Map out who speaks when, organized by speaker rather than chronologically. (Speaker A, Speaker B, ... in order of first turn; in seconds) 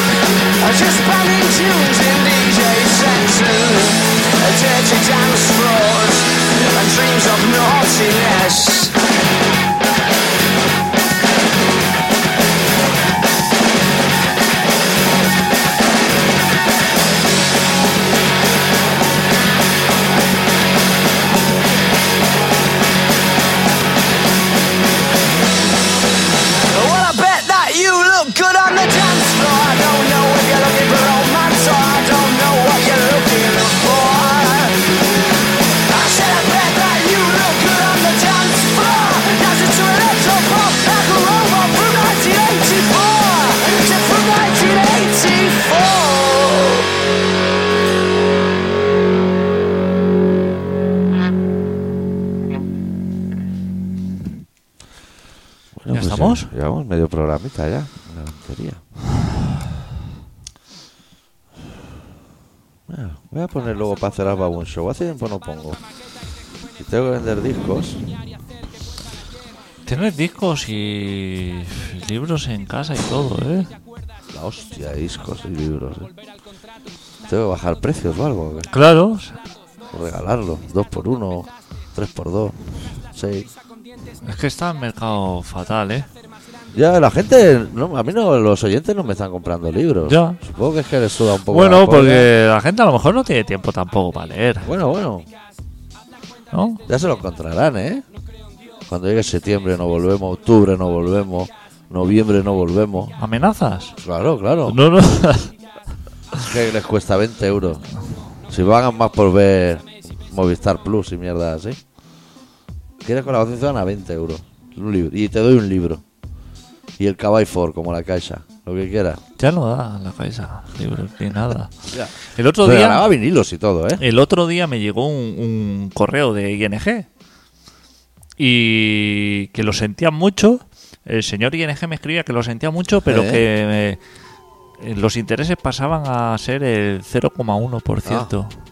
Speaker A: 0.6-8.9, 26.7-35.0, 35.9-46.9
Speaker B: 55.8-58.8, 62.9-65.8, 66.8-68.0, 74.3-76.1, 77.3-78.7, 79.9-82.6, 83.1-83.5, 86.7-92.3, 94.6-95.3, 96.9-98.0, 98.9-103.1, 104.0-104.8, 106.4-107.8, 108.5-111.8, 113.0-116.0, 117.0-119.2, 121.9-124.0, 133.1-133.4, 138.0-138.3
Speaker C: 55.9-56.5, 69.8-73.7, 78.7-79.4, 84.2-86.1, 90.0-90.4, 91.5-94.7, 96.5-96.8, 103.2-104.0, 104.7-105.5, 119.4-121.7, 122.2-123.1, 124.0-127.1, 128.4-134.0, 134.8-138.5